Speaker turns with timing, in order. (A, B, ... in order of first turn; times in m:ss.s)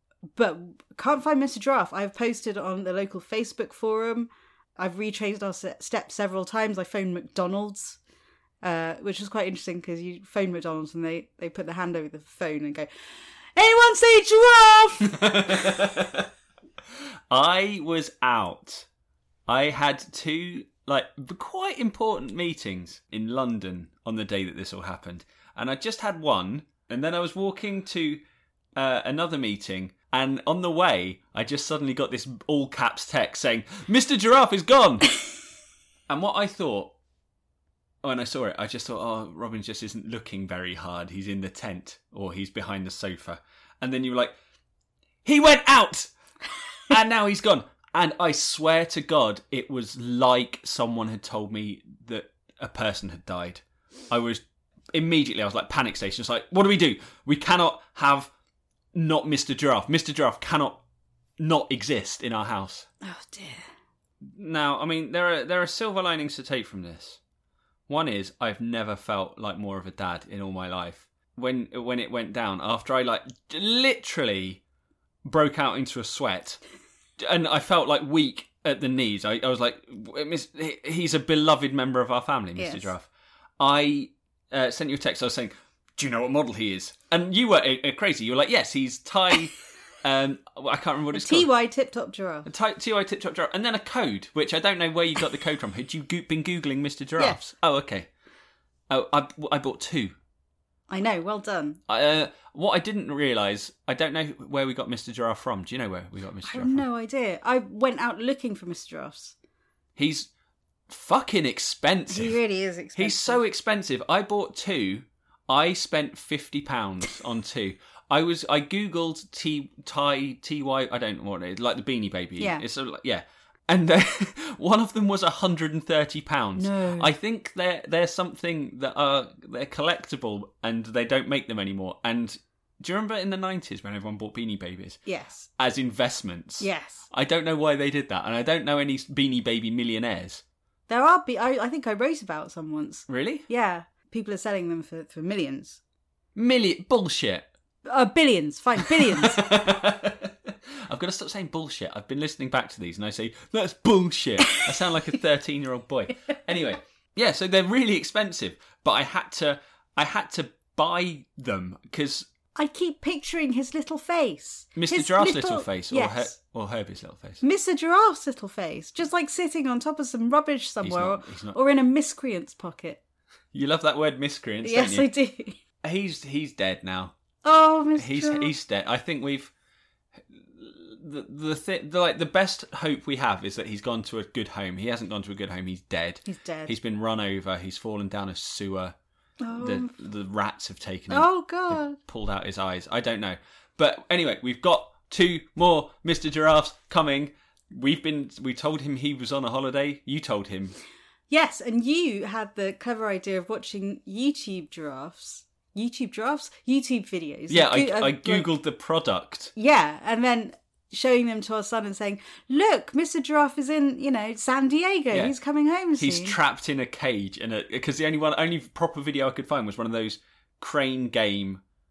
0:00.4-0:08.0 A
0:08.6-0:12.9 A
0:13.6-0:15.8 A
0:15.0-0:16.3 B
0:17.3-0:18.9 B
0:19.5-0:28.2 B
0:28.8-0:35.1 B
0:36.1-0:36.9 B
0:38.0-0:44.4 B
0:45.2-0:46.1 B
0:46.9-0:58.3 B
0:58.9-1:00.8 B
1:01.4-1:02.9 B
1:03.0-1:03.6 A
1:04.2-1:07.2 B
1:07.9-1:14.6 B
1:15.2-1:16.6 B
1:17.2-1:23.1 B
1:22.6-1:22.9 A
1:23.6-1:31.5 B
1:31.1-1:32.5 A
1:32.5-1:38.1 B
1:38.9-1:40.2 B
1:40.9-1:41.8 A
1:41.9-1:46.8 B
1:46.4-1:49.4 A
1:50.0-1:50.3 B
1:50.9-1:52.4 B
1:52.1-1:53.4 A
1:53.0-2:15.0 B
2:02.4-2:02.6 A
2:06.6-2:07.1 A
2:15.1-2:15.5 A
2:15.6-2:20.4 B
2:16.6-2:17.1 A
2:20.9-2:25.8 A
2:23.1-2:23.5 B
2:26.4-2:27.5 B
2:27.8-2:29.6 A
2:28.8-2:42.3 B
2:42.6-2:46.3 A
2:44.8-2:47.4 B
2:47.4-2:53.0 A
2:50.8-2:51.6 B
2:53.5-2:55.1 B
2:54.6-2:55.6 A
2:55.8-2:57.1 B
2:57.4-2:58.5 A
2:58.0-2:59.5 B
3:00.3-3:09.0 B
3:06.2-3:06.8 A
3:09.4-3:09.9 A
3:09.6-3:20.8 B
3:11.1-3:12.0 A
3:21.3-3:28.5 A
3:27.5-3:29.5 B
3:29.6-3:36.4 A
3:35.1-3:35.4 B
3:36.0-3:41.6 B